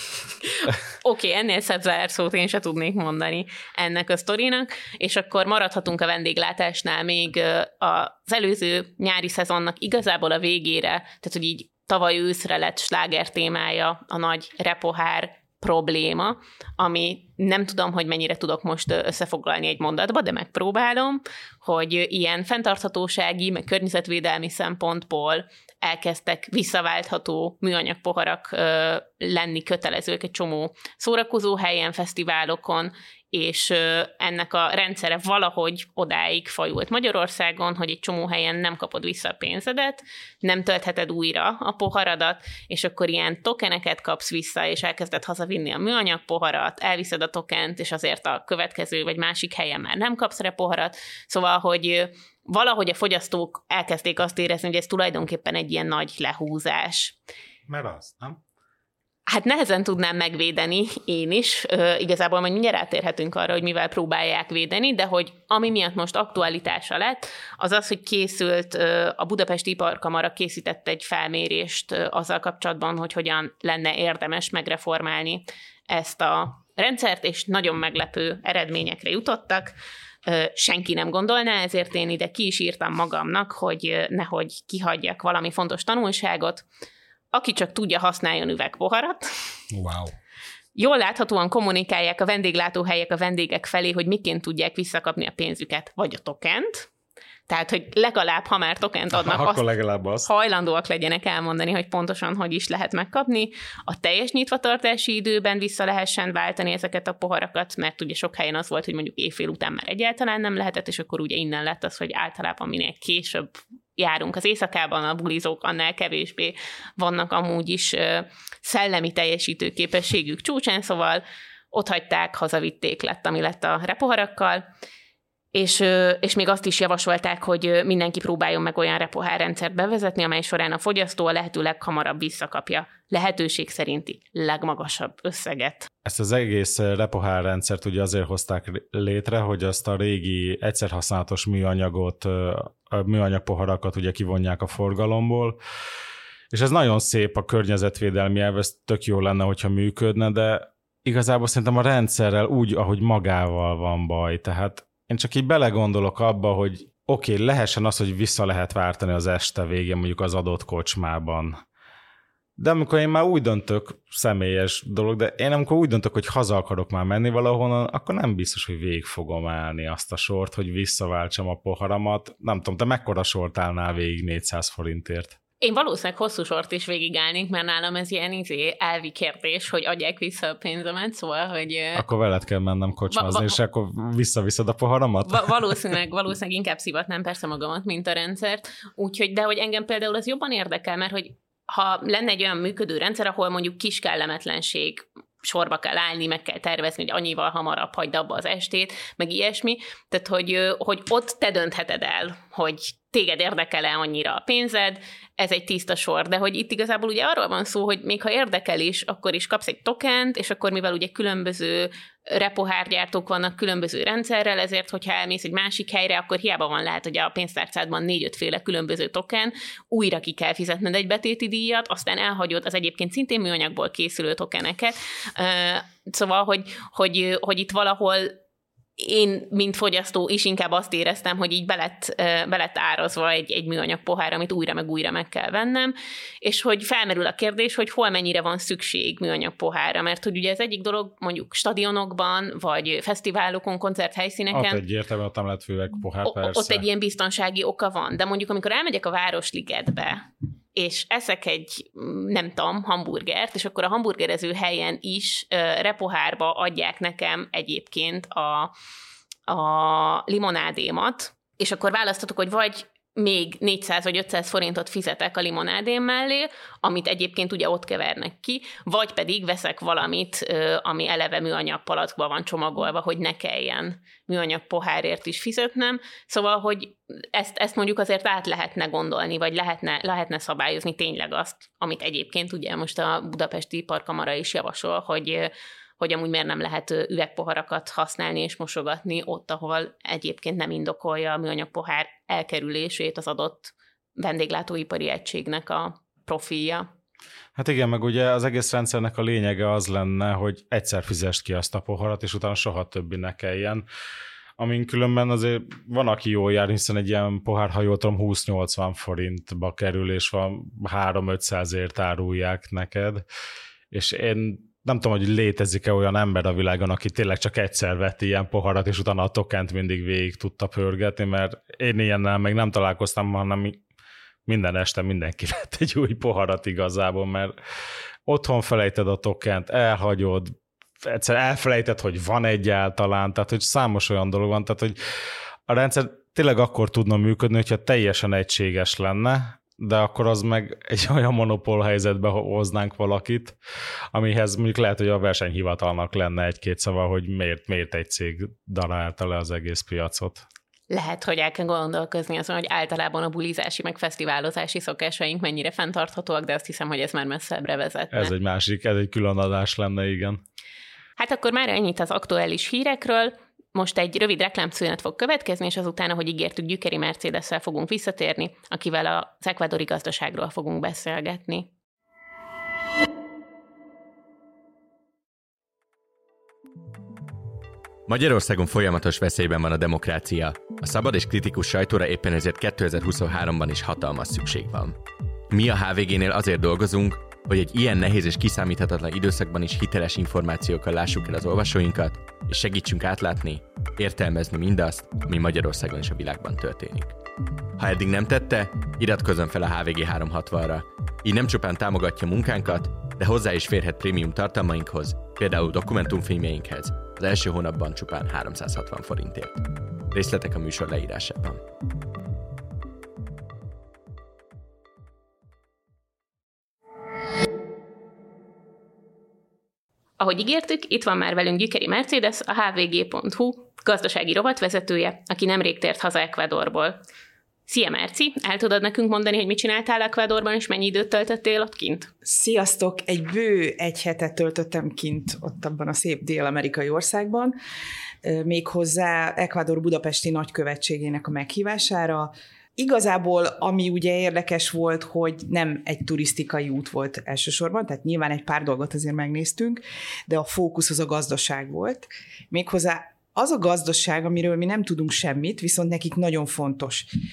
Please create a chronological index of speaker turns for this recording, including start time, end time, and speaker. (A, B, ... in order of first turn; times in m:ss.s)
0:00.6-0:57.2 A
0:57.7-0:58.4 B
0:59.3-1:26.6 A
1:27.3-1:29.3 A
1:29.7-1:30.1 B
1:30.7-1:36.9 A
1:37.5-1:39.7 A
1:39.1-1:40.3 B
1:40.2-2:04.6 A
2:05.5-2:15.9 A
2:16.0-2:25.6 B
2:26.5-2:41.6 B
2:42.6-2:55.4 B
2:55.6-3:02.0 A
3:01.9-3:05.5 B
3:03.1-3:03.6 A
3:05.2-3:48.3 A
3:49.0-4:04.8 A
4:04.5-4:06.8 B
4:06.2-4:18.7 A
4:19.5-4:56.9 A
4:57.5-5:03.8 B
5:04.6-5:13.2 B
5:13.9-5:23.8 B
5:24.4-5:27.5 B
5:28.2-5:35.0 B
5:35.7-5:43.6 B
5:44.1-5:50.4 B
5:50.9-5:58.3 A
5:58.1-6:00.4 B
6:01.2-6:11.7 A
6:18.1-6:37.2 C
6:37.8-6:51.6 C
7:00.2-7:07.0 A
7:07.7-7:12.1 A
7:12.2-7:17.6 D
7:18.2-7:37.1 D